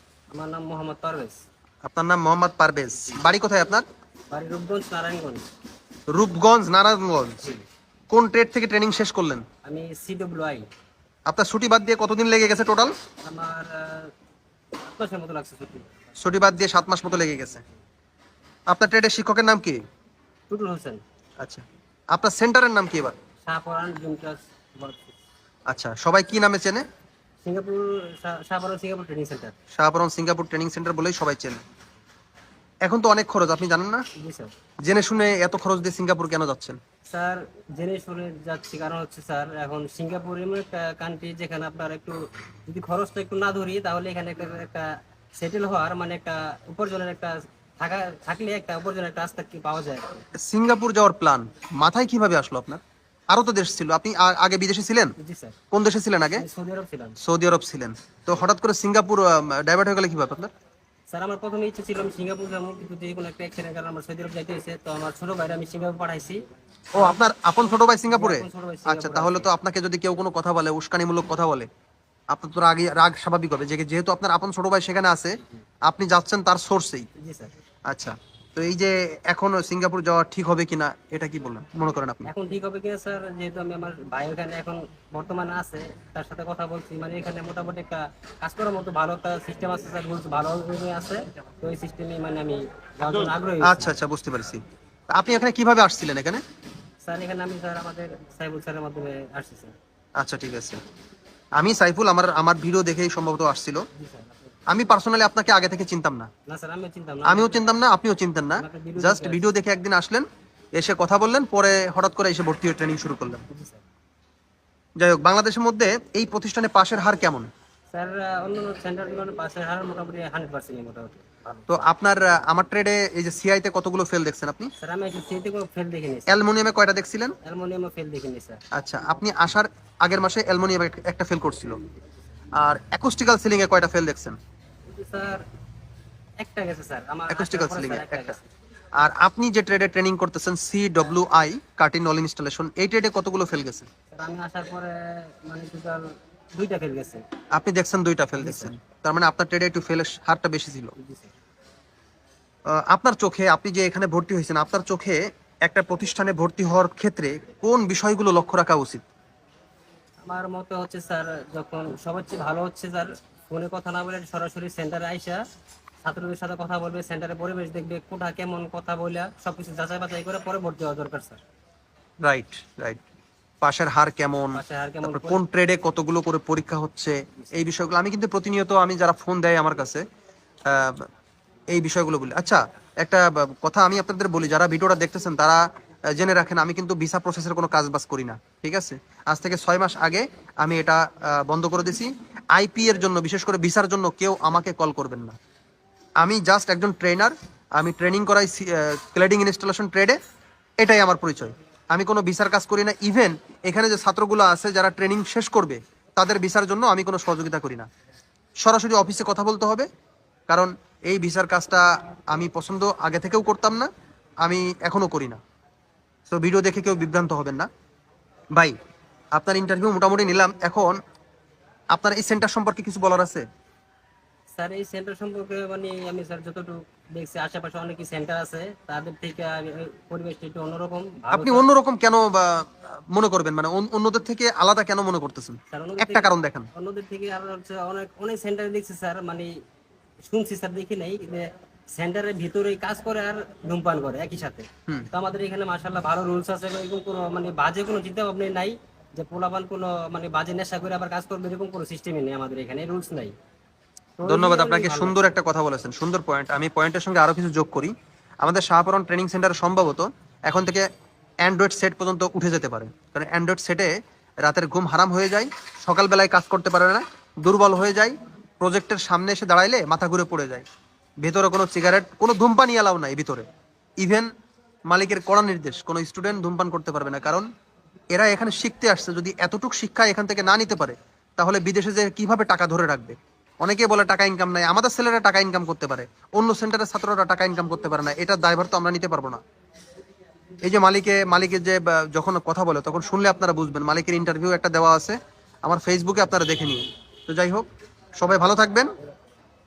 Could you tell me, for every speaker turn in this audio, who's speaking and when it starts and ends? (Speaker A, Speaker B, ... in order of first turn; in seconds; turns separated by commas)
Speaker A: 0.3-1.4, Speaker B: 1.9-3.8, Speaker A: 4.3-5.5, Speaker B: 6.1-7.5, Speaker B: 8.1-9.4, Speaker A: 9.7-10.7, Speaker B: 11.3-12.9, Speaker A: 13.2-14.1, Speaker A: 14.8-15.9, Speaker B: 16.2-17.6, Speaker B: 18.7-19.8, Speaker A: 20.5-21.0, Speaker B: 21.4-23.2, Speaker A: 23.4-25.2, Speaker B: 25.7-26.9, Speaker A: 27.4-29.6, Speaker B: 29.8-31.6, Speaker B: 32.9-34.0, Speaker A: 34.2-34.5, Speaker B: 34.9-36.8, Speaker A: 37.1-50.2, Speaker B: 50.4-55.1, Speaker A: 55.2-55.6, Speaker B: 55.7-56.5, Speaker A: 56.4-57.2, Speaker B: 57.2-60.5, Speaker A: 61.1-66.4, Speaker B: 67.0-71.7, Speaker A: 68.1-69.5, Speaker B: 72.3-77.1, Speaker A: 77.2-77.5, Speaker B: 77.9-82.3, Speaker A: 82.3-94.0, Speaker B: 93.7-96.4, Speaker A: 97.0-99.8, Speaker B: 100.2-100.8, Speaker B: 101.6-103.8, Speaker A: 104.0-104.6, Speaker B: 104.7-106.3, Speaker A: 106.5-107.7, Speaker B: 107.3-113.4, Speaker A: 108.6-109.4, Speaker A: 113.5-113.8, Speaker B: 115.0-117.5, Speaker A: 117.9-121.8, Speaker B: 121.7-124.7, Speaker A: 124.8-126.4, Speaker B: 126.3-127.4, Speaker A: 127.4-128.6, Speaker B: 128.7-131.8, Speaker B: 132.6-134.4, Speaker A: 134.9-135.4, Speaker A: 136.4-138.5, Speaker B: 137.3-138.4, Speaker B: 139.0-143.9, Speaker A: 144.1-147.2, Speaker B: 147.5-150.9, Speaker A: 148.4-148.7, Speaker A: 151.0-151.3, Speaker B: 152.7-159.1, Speaker A: 160.2-165.4, Speaker A: 166.0-171.4, Speaker B: 172.2-173.0, Speaker B: 173.6-180.0, Speaker A: 174.5-175.4, Speaker A: 177.4-177.7, Speaker B: 180.7-181.1, Speaker B: 181.7-195.4, Speaker B: 196.2-200.2, Speaker B: 200.8-207.9, Speaker B: 208.6-209.9, Speaker B: 210.5-213.9, Speaker B: 214.4-215.4, Speaker B: 216.3-217.7, Speaker B: 219.3-221.0, Speaker B: 221.9-223.4, Speaker A: 224.5-231.7, Speaker B: 231.3-236.7, Speaker A: 235.7-239.5, Speaker A: 240.3-253.3, Speaker A: 254.2-255.3, Speaker B: 254.3-260.9, Speaker B: 261.4-270.7, Speaker B: 271.2-273.5, Speaker B: 274.0-274.3, Speaker B: 274.9-277.5, Speaker B: 278.1-289.4, Speaker B: 290.6-297.7, Speaker B: 298.2-298.9